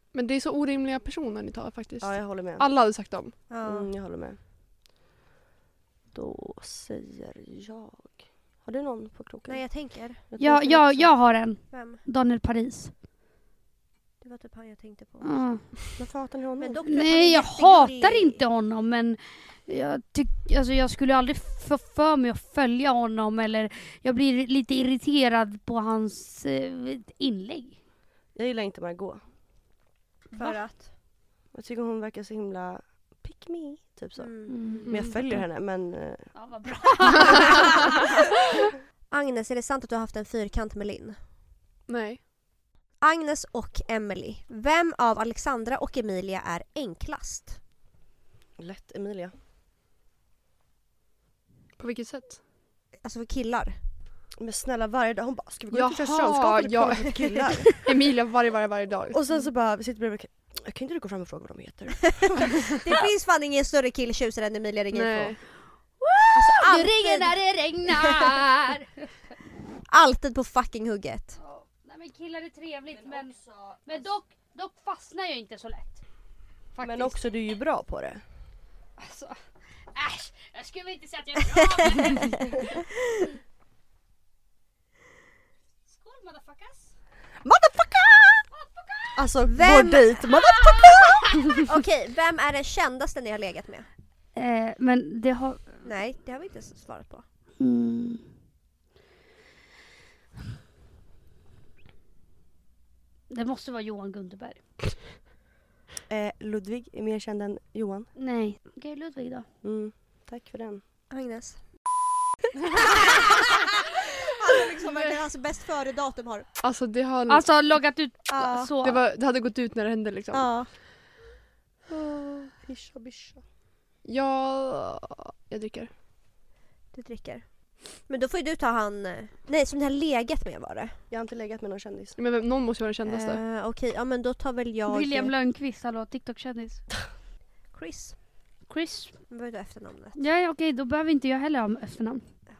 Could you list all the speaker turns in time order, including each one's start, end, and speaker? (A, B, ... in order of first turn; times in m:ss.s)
0:00.1-0:03.4 A
0:02.0-0:02.7 B
0:03.5-0:03.9 C
0:03.6-0:04.4 B
0:06.1-0:11.1 B
0:09.5-0:10.3 C
0:10.4-0:12.9 D
0:11.7-0:12.0 C
0:14.2-0:15.5 C
0:15.2-0:15.6 D
0:16.0-0:16.8 B
0:16.6-0:18.4 C
0:16.9-0:27.8 D
0:28.4-0:29.2 B
0:30.3-0:30.9 C
0:31.5-0:36.3 B
0:34.2-0:34.9 C
0:34.6-0:34.9 D
0:34.8-0:35.4 A
0:36.4-0:37.7 D
0:39.1-0:41.2 C
0:41.9-0:42.2 A
0:43.0-0:47.6 C
0:48.6-0:49.4 B
0:51.8-0:52.4 A
0:53.0-0:53.8 C
0:54.4-0:57.8 B
0:55.7-0:59.2 A
0:59.1-1:02.9 B
1:02.7-1:05.4 C
1:04.9-1:05.4 A
1:06.0-1:08.9 D
1:06.4-1:07.4 C
1:07.9-1:08.3 C
1:09.9-1:11.4 C
1:11.5-1:16.0 D
1:16.8-1:17.2 D
1:16.8-1:18.2 B
1:19.0-1:19.3 D
1:20.0-1:22.3 D
1:25.9-1:26.9 D
1:27.4-1:28.5 B
1:28.5-1:29.2 D
1:29.2-1:31.4 B
1:29.5-1:30.1 C
1:31.6-1:33.9 C
1:34.4-1:35.8 D
1:35.8-1:37.2 C
1:37.6-1:38.2 D
1:43.4-1:44.6 D
1:46.1-1:48.1 B
1:48.2-1:49.4 D
1:49.6-1:50.8 B
1:51.1-1:51.6 C
1:53.0-1:53.5 C
1:54.3-1:56.5 C
1:56.6-1:57.5 A
1:57.3-1:59.0 D
1:58.3-1:58.7 C
1:58.8-2:00.6 A
2:00.3-2:00.7 C
2:02.6-2:03.4 B
2:04.0-2:05.9 A
2:06.9-2:11.0 C
2:11.1-2:12.2 B
2:12.2-2:13.4 A
2:13.0-2:15.3 C
2:14.9-2:16.8 D
2:17.7-2:18.2 C
2:18.7-2:19.1 D
2:19.3-2:20.2 C
2:20.2-2:22.2 D